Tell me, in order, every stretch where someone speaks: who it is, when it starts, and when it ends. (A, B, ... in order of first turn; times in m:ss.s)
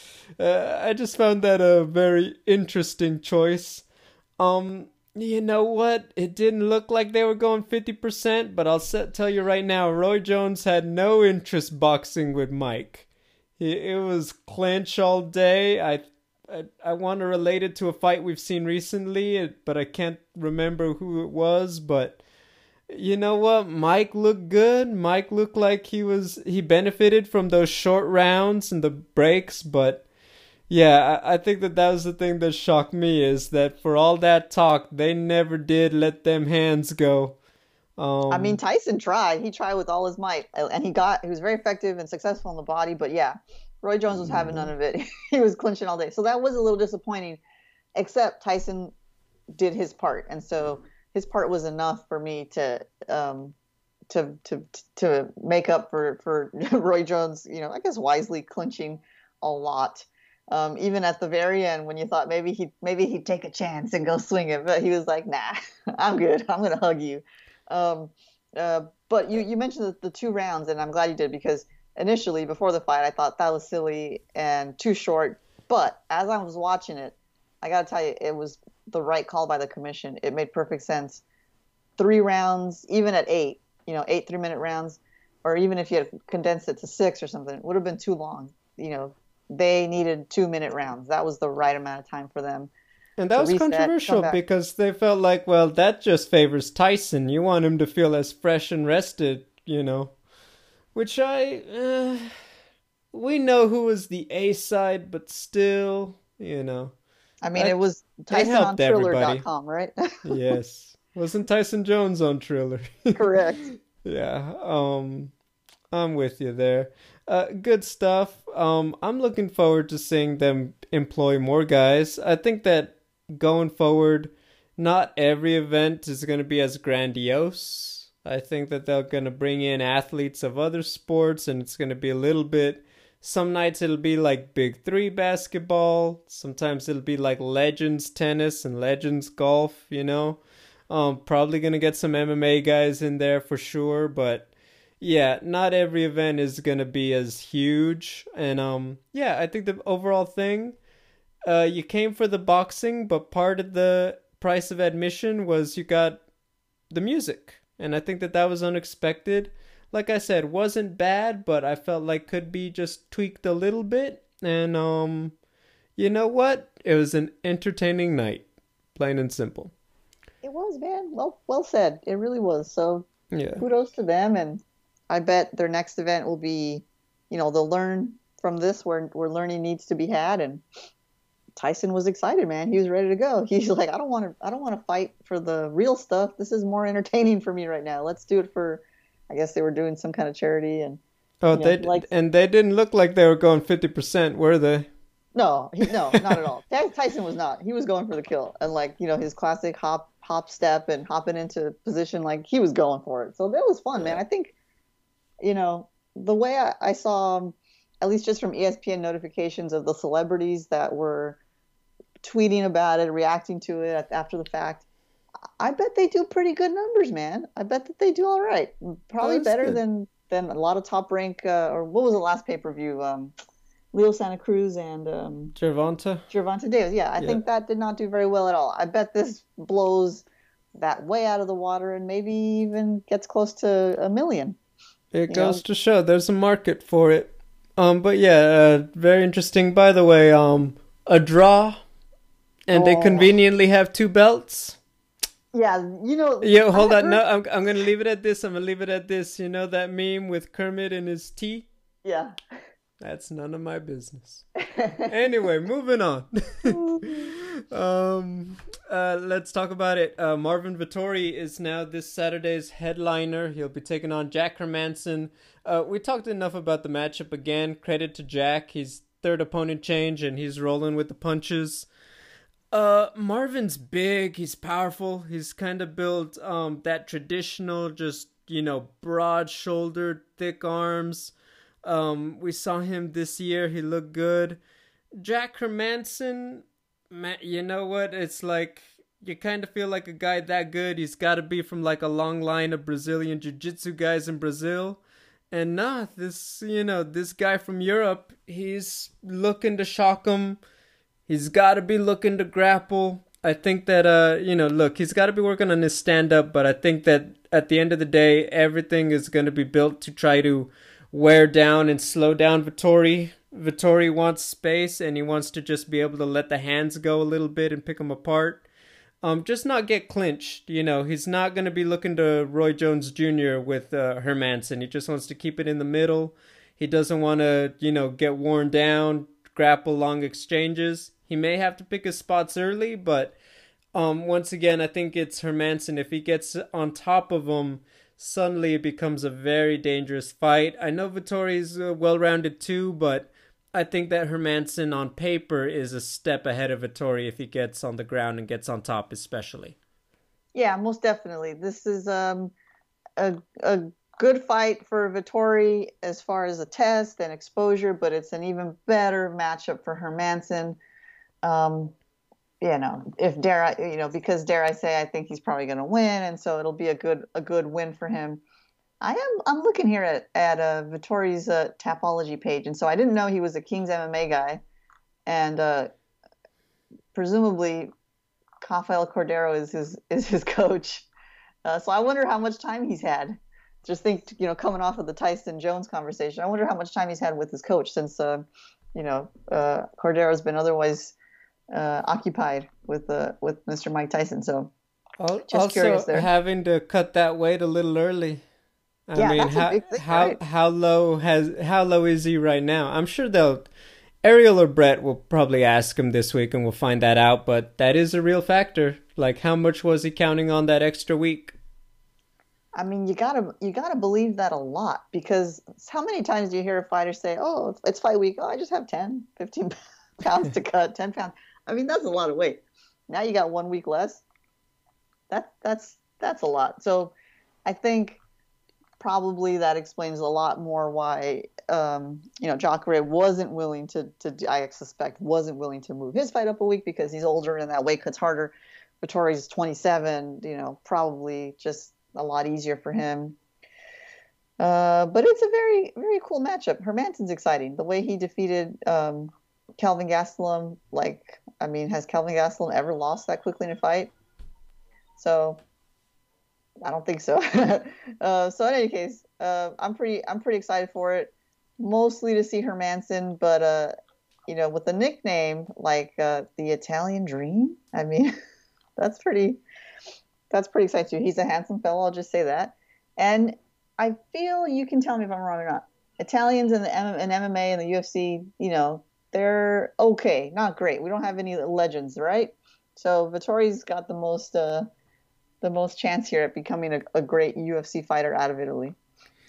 0:00.4-0:03.8 A
0:04.4-0:13.0 A
0:13.6-0:22.2 A
0:22.9-0:30.1 A
0:30.7-0:37.4 A
0:38.0-0:38.6 A
0:38.3-0:47.4 B
0:48.0-0:48.9 B
0:49.6-0:53.5 B
0:54.1-1:21.2 B
1:22.0-1:32.7 B
1:33.2-1:40.1 A
1:33.4-1:34.4 B
1:40.9-1:42.3 A
1:43.1-1:46.9 A
1:47.4-1:50.4 B
1:48.3-1:49.4 A
1:50.2-1:55.3 A
1:53.1-1:53.7 B
1:55.9-2:24.5 A
2:25.0-2:30.8 A
2:31.4-2:36.2 A
2:36.9-2:45.3 A
2:46.0-2:49.7 A
2:50.4-2:53.1 B
2:53.3-2:53.6 A
2:53.6-3:00.6 B
3:01.6-3:11.0 B
3:11.4-3:14.9 A
3:11.5-3:12.0 B
3:15.3-3:24.5 B
3:25.4-3:31.4 B
3:32.2-3:34.9 B
3:35.6-3:43.3 B
3:39.2-3:39.8 A
3:43.9-3:45.5 B
3:45.5-3:46.2 A
3:46.3-3:50.2 B
3:50.8-3:54.6 B
3:55.1-4:01.8 A
3:55.3-3:55.6 B
4:02.7-4:04.8 A
4:02.7-4:03.3 B
4:05.5-4:07.2 B
4:06.4-4:11.7 A
4:12.0-4:12.3 B
4:13.0-4:14.4 A
4:14.7-4:15.1 B
4:15.1-4:31.9 A
4:16.7-4:17.0 B
4:32.7-4:41.3 A
4:41.8-4:44.6 A
4:45.2-4:55.0 A
4:55.5-5:00.6 A
5:01.3-5:18.6 A
5:19.2-5:33.4 A
5:33.9-5:49.8 A
5:50.5-5:52.5 B
5:53.2-6:00.8 B
6:01.4-6:01.9 B
6:02.6-6:08.4 B
6:09.0-6:14.6 B
6:15.2-6:15.9 B
6:17.1-6:17.9 B
6:18.6-6:21.1 B
6:21.6-6:31.1 B
6:31.7-6:34.7 B
6:35.2-6:38.4 A
6:35.5-6:36.3 B
6:39.1-6:43.7 A
6:39.2-6:40.4 B
6:44.2-6:51.6 A
6:52.8-7:04.2 B
7:05.3-7:07.1 B
7:07.6-7:08.2 B
7:09.0-7:23.4 B
7:24.6-7:34.1 B
7:35.2-7:35.6 B
7:36.8-7:43.9 B
7:44.5-7:48.3 B
7:49.0-7:49.6 B
7:50.5-8:04.9 B
8:05.6-8:09.0 B